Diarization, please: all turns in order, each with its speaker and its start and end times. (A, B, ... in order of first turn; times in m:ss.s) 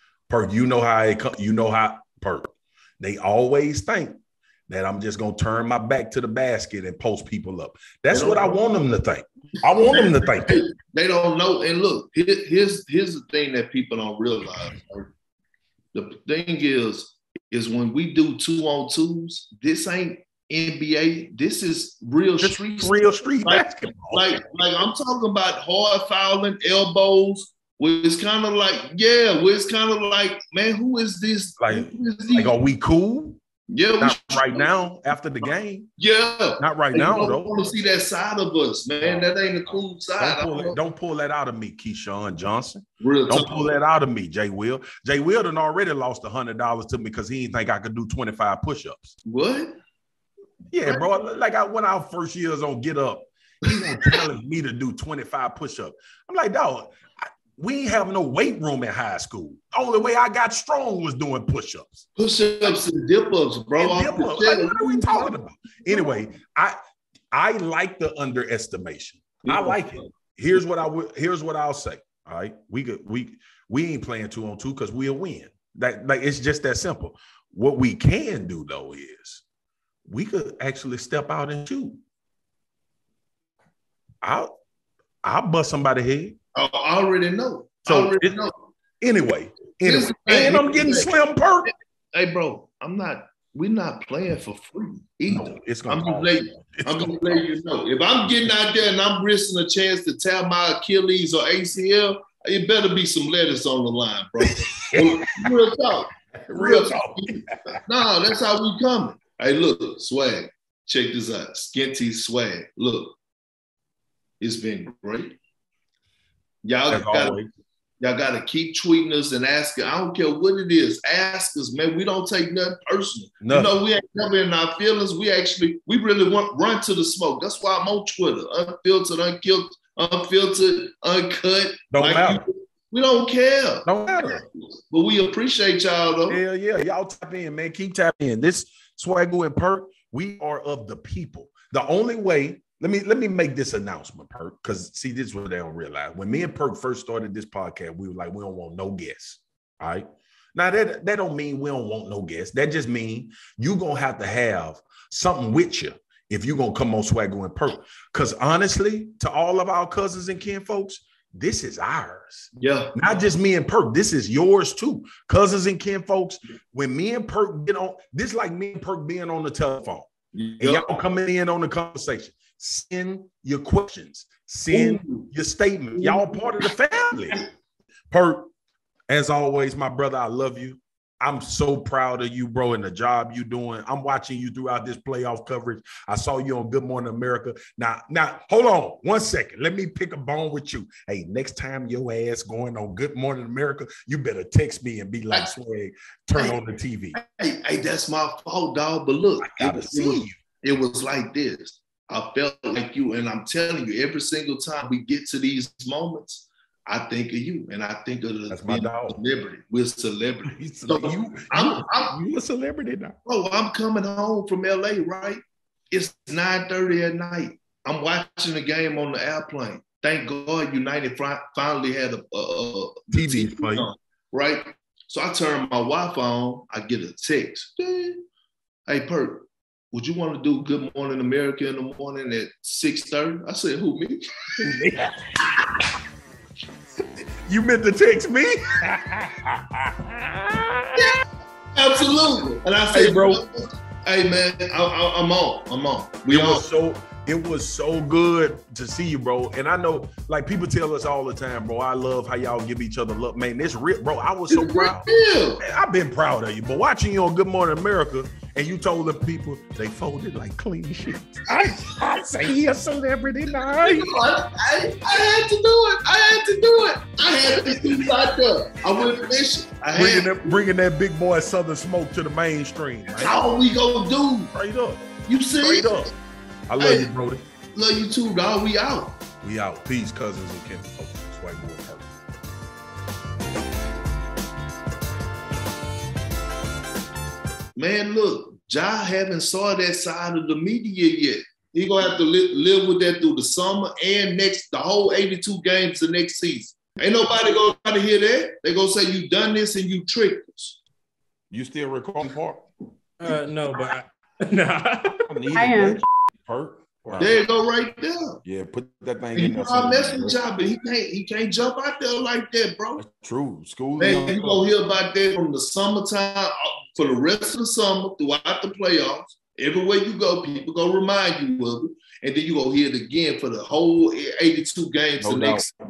0:00.3-0:10.6 A
0:08.1-0:08.6 B
0:09.8-0:15.1 B
0:15.9-0:32.6 B
0:22.4-0:24.3 A
0:31.6-0:33.4 A
0:33.7-0:34.7 B
0:34.0-0:35.9 A
0:36.0-0:40.8 B
0:36.6-0:37.5 A
0:39.0-0:39.3 A
0:40.2-0:49.2 A
0:43.0-0:43.7 B
0:49.2-0:49.8 B
0:50.7-1:02.1 A
0:53.9-0:54.2 B
1:02.2-1:06.1 B
1:03.8-1:06.8 A
1:07.3-1:19.4 A
1:09.5-1:10.1 B
1:20.1-1:22.0 A
1:24.2-1:24.5 A
1:25.2-1:26.4 A
1:26.6-1:28.6 B
1:27.9-1:28.4 A
1:29.0-1:31.7 A
1:29.8-1:31.1 B
1:32.1-1:53.2 B
1:35.3-1:37.5 A
1:44.6-1:45.5 A
1:46.3-1:47.8 A
1:54.4-1:55.4 B
1:56.6-1:57.4 B
1:56.9-1:57.5 A
1:58.0-2:16.4 B
2:03.4-2:03.8 A
2:11.9-2:12.4 A
2:13.8-2:14.4 A
2:16.3-2:57.4 A
2:42.6-2:43.0 B
2:50.3-2:50.9 B
2:54.7-2:55.3 B
2:56.0-2:56.7 B
2:58.1-2:58.5 A
2:59.1-3:17.2 A
3:17.2-3:32.2 B
3:19.4-3:20.4 A
3:28.5-3:29.2 A
3:30.5-3:33.2 A
3:33.2-3:48.2 B
3:43.1-3:43.9 A
3:48.9-3:54.7 B
3:54.6-3:55.3 A
3:55.4-3:55.8 B
3:57.4-4:01.1 A
4:01.0-4:01.2 B
4:01.8-4:06.6 B
4:02.9-4:03.4 A
4:06.3-4:15.1 A
4:14.5-4:15.6 B
4:15.6-4:24.2 A
4:23.7-4:30.6 B
4:29.9-4:33.4 A
4:33.1-4:34.5 B
4:34.5-4:36.1 A
4:35.3-4:36.1 B
4:36.7-4:37.5 A
4:36.8-4:37.1 B
4:37.8-4:39.2 B
4:39.4-4:42.1 A
4:47.8-5:00.8 B
5:01.5-5:02.6 A
5:03.2-5:05.2 C
5:05.2-5:07.4 A
5:07.2-5:08.4 B
5:08.4-5:10.4 A
5:09.3-5:13.0 B
5:13.0-5:14.7 A
5:14.0-5:25.7 B
5:25.2-5:25.7 A